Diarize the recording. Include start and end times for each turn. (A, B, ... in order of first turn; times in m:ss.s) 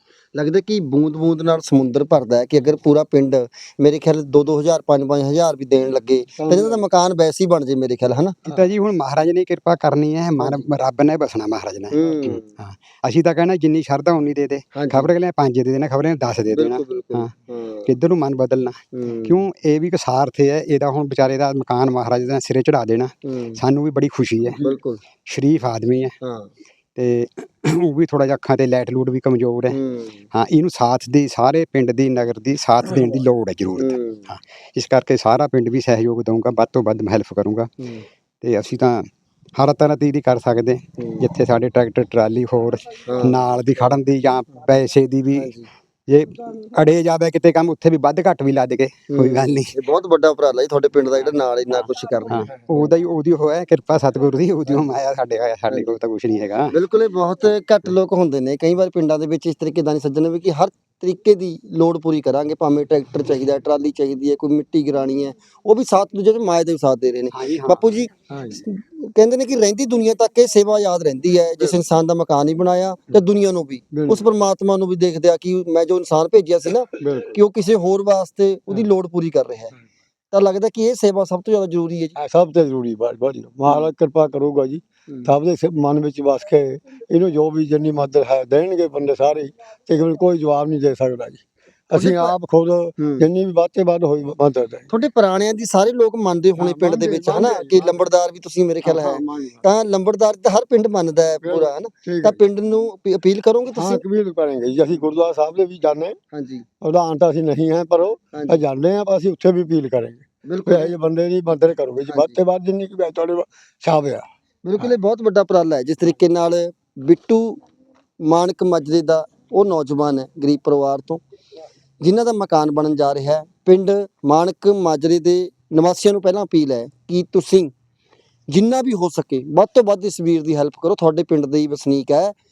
0:00.3-0:08.4 A
0:06.4-0:06.8 B
0:08.5-0:17.3 C
0:10.4-0:10.6 A
0:11.9-0:12.5 A
0:14.7-0:15.1 A
0:16.5-0:17.9 A
0:17.8-0:24.6 C
0:18.9-0:19.4 A
0:23.2-0:23.6 A
0:24.6-0:25.0 A
0:25.3-0:26.1 C
0:26.2-0:26.5 A
0:27.0-0:29.8 C
0:29.7-0:30.2 A
0:30.3-0:37.7 C
0:33.8-0:34.2 A
0:38.4-0:45.5 C
0:41.0-0:41.2 A
0:43.1-0:43.4 A
0:45.3-0:45.7 A
0:46.1-0:49.7 C
0:49.1-0:52.5 A
0:52.3-0:56.7 C
0:56.7-1:19.7 A
1:07.3-1:07.8 C
1:08.3-1:08.6 B
1:13.9-1:14.3 B
1:17.0-1:17.4 B
1:20.3-1:22.1 A
1:22.2-1:34.9 B
1:31.9-1:32.4 A
1:33.0-1:33.2 A
1:34.9-1:44.0 A
1:36.6-1:38.0 B
1:38.8-1:39.6 B
1:41.4-1:42.4 B
1:43.7-1:46.2 B
1:46.3-1:46.6 A
1:46.8-1:54.2 B
1:48.3-1:48.6 A
1:50.4-1:50.9 A
1:52.1-1:52.4 A
1:54.6-1:57.6 A
1:58.2-2:01.2 A
2:02.0-2:07.7 A
2:08.5-2:12.3 A